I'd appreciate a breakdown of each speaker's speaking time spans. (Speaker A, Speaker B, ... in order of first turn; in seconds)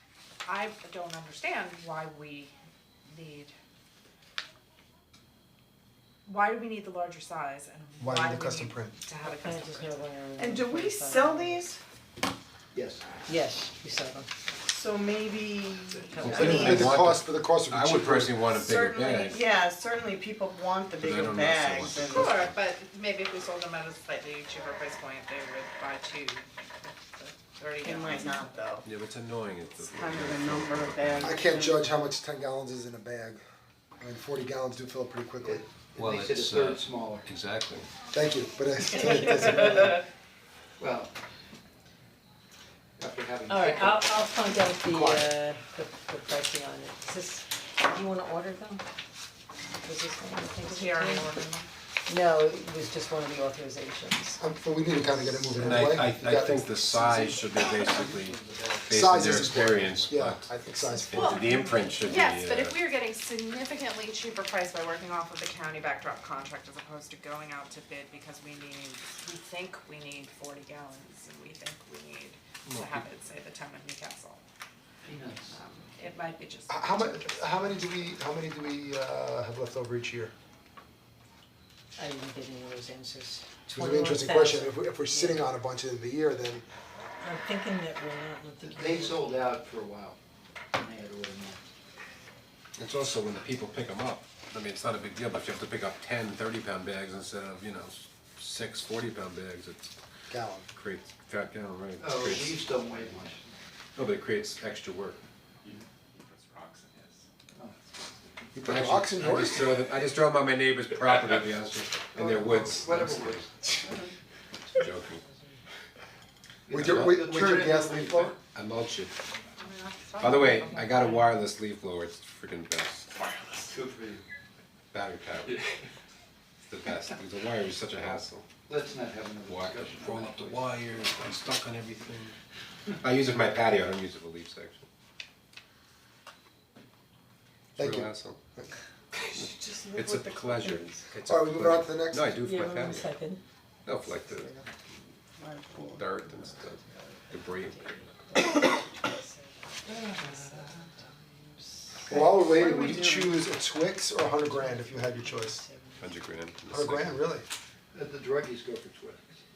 Speaker A: 0.5-2.5, 3.0-3.5, 6.2-10.0, 22.0-28.6, 50.6-51.7, 61.1-74.4, 75.4-77.5, 119.6-121.3
Speaker B: 8.0-9.0, 16.2-18.4, 31.2-33.4, 34.0-35.6, 38.1-40.0, 44.9-45.3, 54.4-56.7, 58.9-61.5, 76.7-80.3, 83.7-86.7, 100.3-100.7, 108.5-109.6, 116.7-118.3, 137.8-138.7, 141.2-142.3, 152.1-155.6, 156.7-157.4
Speaker C: 9.2-11.6, 13.3-14.3, 16.1-16.9, 38.9-40.0, 43.5-48.8, 49.8-51.3, 52.1-54.4, 61.5-61.8, 82.0-85.5, 87.2-89.2, 115.2-115.6, 142.4-143.4, 147.4-152.3, 154.4-156.2
Speaker D: 10.4-11.8, 14.6-16.9, 18.4-22.3, 27.8-28.8, 29.7-31.9, 139.3-141.1, 145.3-146.2, 152.1-153.3
Speaker E: 12.7-13.0, 16.0-16.5, 35.4-37.3, 40.8-41.1, 43.0-44.3, 56.7-60.2, 75.0-75.6, 88.6-90.2, 90.7-91.6, 102.0-103.5, 107.5-107.8, 112.1-114.1, 116.7-118.4, 123.7-124.2, 128.7-131.2, 149.9-150.8, 157.9-159.4
Speaker F: 16.2-19.4, 20.9-22.6, 28.8-31.3, 35.9-37.9, 55.6-62.8, 72.7-73.0, 92.8-99.9, 100.7-102.6, 104.0-105.2, 108.6-113.7, 114.7-115.2, 116.7-117.2, 118.5-119.1, 120.2-123.3, 124.9-125.8, 126.7-128.5, 129.4-132.3, 133.0-134.8, 137.8-138.4, 139.3-143.1, 143.8-144.5, 145.9-147.8, 156.0-157.3